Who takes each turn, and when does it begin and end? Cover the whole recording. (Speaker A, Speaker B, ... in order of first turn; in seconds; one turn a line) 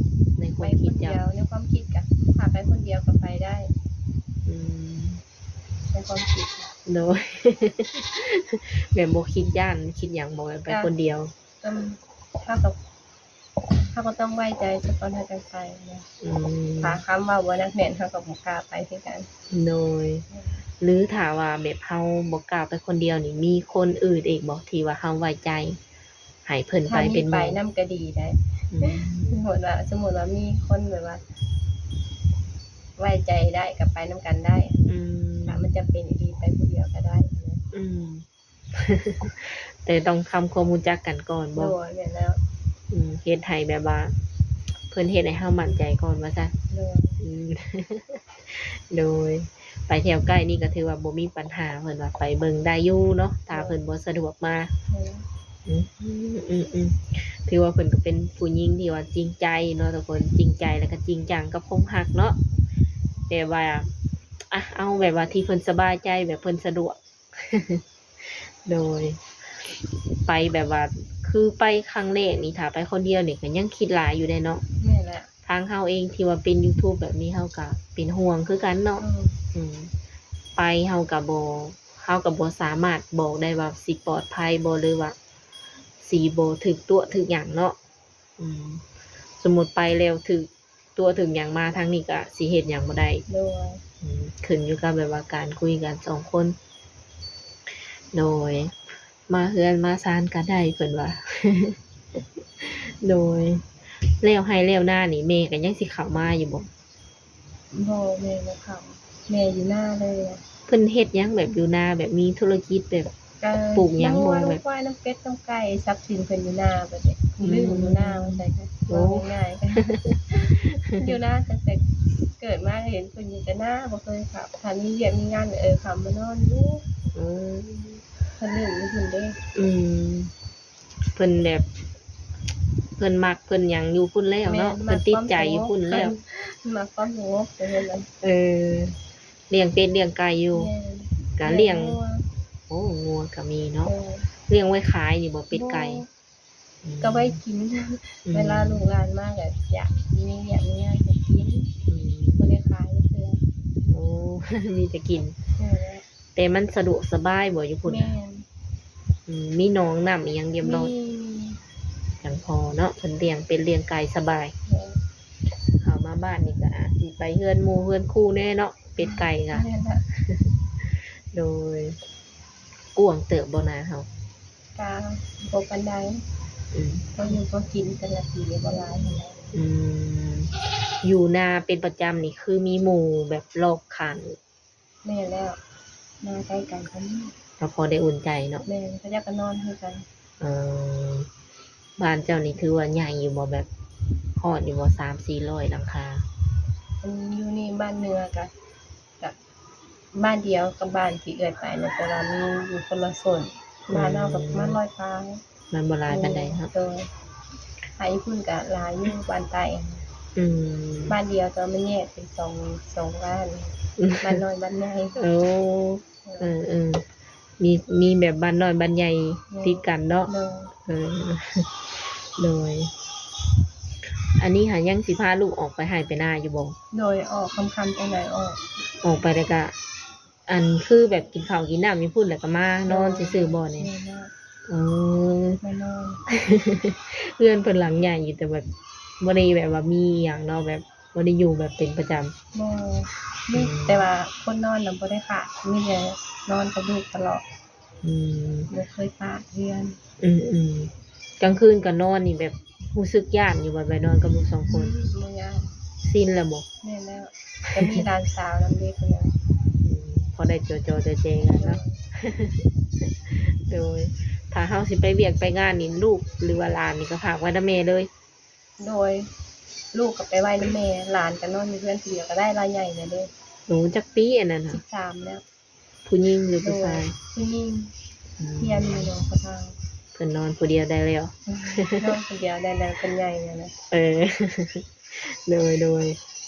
Speaker A: 0.4-1.2
Speaker B: 0.6-3.7
Speaker A: 4.5-5.2
Speaker B: 5.9-6.7
Speaker A: 6.8-11.3
Speaker B: 11.6-12.8
Speaker B: 13.9-16.1
Speaker A: 16.2-17.0
Speaker B: 16.8-19.3
Speaker A: 19.5-20.2
Speaker B: 20.3-20.6
Speaker A: 20.8-25.8
Speaker A: 26.4-27.6
Speaker B: 26.9-31.2
Speaker A: 28.7-29.4
Speaker B: 33.0-37.6
Speaker A: 34.9-35.6
Speaker A: 37.7-41.7
Speaker B: 41.5-42.4
Speaker A: 42.9-44.1
Speaker A: 44.9-46.5
Speaker B: 46.7-47.2
Speaker A: 47.2-54.7
Speaker B: 53.5-53.8
Speaker B: 54.9-55.2
Speaker A: 55.7-62.4
Speaker A: 63.3-63.9
Speaker A: 64.5-74.6
Speaker B: 74.8-75.3
Speaker A: 75.4-79.9
Speaker B: 79.0-79.4
Speaker A: 80.5-85.2
Speaker A: 86.0-87.8
Speaker A: 88.4-88.8
Speaker A: 89.4-93.2
Speaker B: 93.3-93.8
Speaker A: 94.0-96.6
Speaker A: 98.1-98.8
Speaker A: 99.3-103.7
Speaker A: 104.2-106.7
Speaker B: 107.7-110.4
Speaker A: 110.7-113.1
Speaker B: 113.4-126.8
Speaker A: 113.7-114.6
Speaker A: 117.4-121.1
Speaker A: 127.1-128.0
Speaker B: 128.4-129.4
Speaker A: 129.5-130.3
Speaker A: 131.1-131.7
Speaker A: 133.0-136.1
Speaker B: 134.5-138.1
Speaker A: 138.2-139.0
Speaker A: 139.5-140.7
Speaker B: 140.5-142.2
Speaker A: 141.3-142.0
Speaker A: 142.7-143.9
Speaker B: 143.8-144.3
Speaker A: 144.5-146.0
Speaker B: 145.5-146.1
Speaker A: 146.8-147.4
Speaker B: 147.0-151.7
Speaker A: 148.3-148.8
Speaker A: 151.9-152.4
Speaker B: 152.4-153.4
Speaker A: 153.9-155.4
Speaker B: 155.6-156.0
Speaker A: 156.3-158.1
Speaker B: 157.9-158.4
Speaker A: 159.3-160.9
Speaker B: 160.6-161.6
Speaker A: 162.2-164.5
Speaker B: 164.7-165.0
Speaker A: 165.8-172.0
Speaker B: 169.0-170.0
Speaker A: 172.9-174.1
Speaker B: 174.8-176.2
Speaker A: 176.7-177.3
Speaker B: 177.2-179.4
Speaker A: 179.5-184.4
Speaker B: 185.0-185.6
Speaker B: 186.2-187.3
Speaker A: 187.6-188.6
Speaker B: 188.6-190.1
Speaker A: 190.4-191.3
Speaker A: 192.0-193.7
Speaker A: 194.3-196.2
Speaker B: 197.0-198.5
Speaker B: 200.1-205.4
Speaker A: 203.9-204.8
Speaker A: 205.7-206.7
Speaker B: 206.1-207.1
Speaker B: 208.0-210.0
Speaker A: 210.3-211.2
Speaker B: 211.1-215.2
Speaker A: 214.0-214.4
Speaker A: 215.2-217.0
Speaker B: 216.2-216.5
Speaker A: 217.6-220.3
Speaker B: 219.5-220.7
Speaker A: 220.9-221.8
Speaker A: 222.4-222.9
Speaker A: 224.3-226.8
Speaker B: 226.9-228.7
Speaker A: 229.0-229.7
Speaker A: 230.5-233.9
Speaker B: 232.9-234.3
Speaker A: 234.7-235.6
Speaker B: 235.6-236.2
Speaker A: 236.3-238.7
Speaker A: 239.2-242.3
Speaker B: 242.5-247.4
Speaker A: 243.5-244.1
Speaker A: 248.0-248.7
Speaker B: 248.7-250.0
Speaker A: 250.2-254.9
Speaker B: 254.7-255.7
Speaker A: 256.0-256.6
Speaker B: 256.8-259.3
Speaker A: 257.7-258.0
Speaker A: 259.8-268.1
Speaker B: 261.5-262.0
Speaker B: 268.8-269.3
Speaker B: 269.9-273.3
Speaker A: 273.7-274.8
Speaker B: 274.7-275.4
Speaker A: 276.1-277.1
Speaker B: 276.6-277.9
Speaker A: 278.4-279.1
Speaker B: 278.6-279.8
Speaker A: 280.1-282.2
Speaker B: 281.5-283.7
Speaker A: 283.9-286.2